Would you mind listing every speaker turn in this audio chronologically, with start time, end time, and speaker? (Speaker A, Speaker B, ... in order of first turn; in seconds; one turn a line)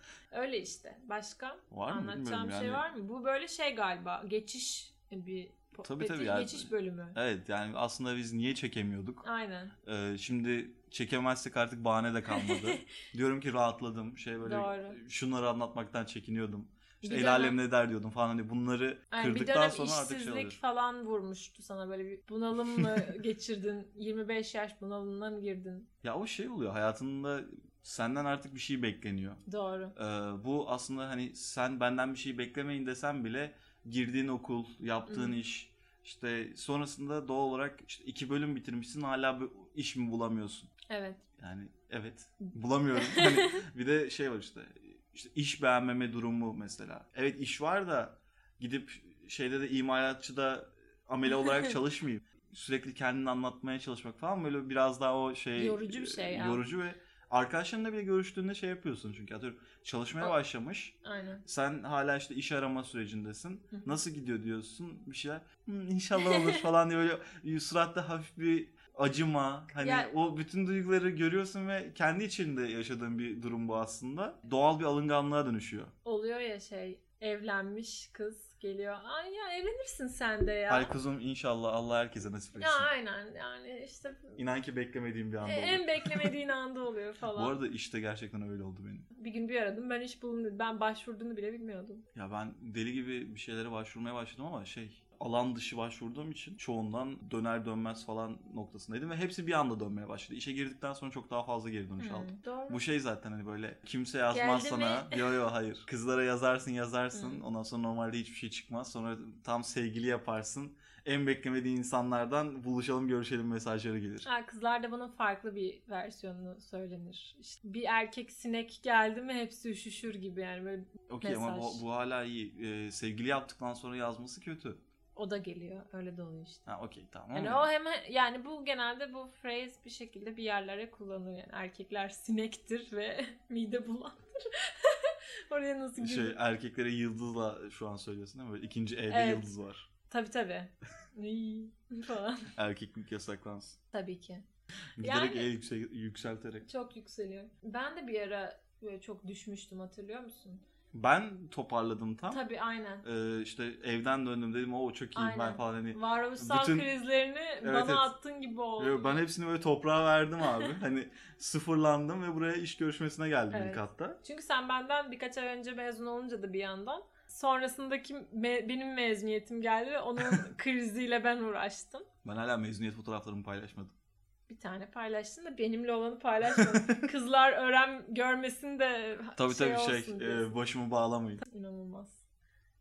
Speaker A: 0.3-7.2
Speaker B: 1.7-2.9
Speaker B: 5.8-9.2
Speaker A: 9.2-9.7
Speaker B: 9.8-20.6
Speaker A: 12.3-12.8
Speaker A: 14.4-15.0
Speaker A: 17.0-17.6
Speaker A: 19.1-25.9
Speaker B: 26.0-29.4
Speaker A: 29.5-29.9
Speaker B: 29.9-40.7
Speaker A: 35.1-35.4
Speaker A: 40.9-41.2
Speaker B: 41.4-75.9
Speaker A: 43.0-43.6
Speaker A: 51.4-51.8
Speaker A: 55.6-56.6
Speaker A: 61.0-61.4
Speaker A: 63.7-64.0
Speaker A: 66.2-66.6
Speaker A: 69.8-70.1
Speaker A: 76.0-80.9
Speaker B: 80.7-82.9
Speaker A: 82.6-84.4
Speaker B: 84.4-86.3
Speaker A: 85.4-87.6
Speaker B: 87.3-89.1
Speaker A: 89.1-92.0
Speaker B: 92.1-114.3
Speaker A: 102.0-102.8
Speaker A: 104.3-105.4
Speaker A: 107.1-107.4
Speaker A: 114.2-121.8
Speaker B: 121.1-124.8
Speaker A: 125.2-126.7
Speaker B: 126.7-127.7
Speaker A: 127.3-136.4
Speaker B: 136.0-139.9
Speaker A: 139.1-139.5
Speaker A: 140.1-142.5
Speaker B: 142.6-143.8
Speaker A: 143.9-144.4
Speaker B: 145.0-146.7
Speaker A: 145.0-145.5
Speaker A: 146.7-150.6
Speaker B: 150.9-152.4
Speaker A: 152.3-153.1
Speaker B: 153.0-156.9
Speaker A: 155.2-159.2
Speaker B: 157.6-158.1
Speaker B: 158.8-164.2
Speaker A: 163.5-172.1
Speaker B: 172.2-173.9
Speaker A: 174.5-180.5
Speaker B: 176.6-177.1
Speaker B: 179.4-181.4
Speaker A: 181.4-182.2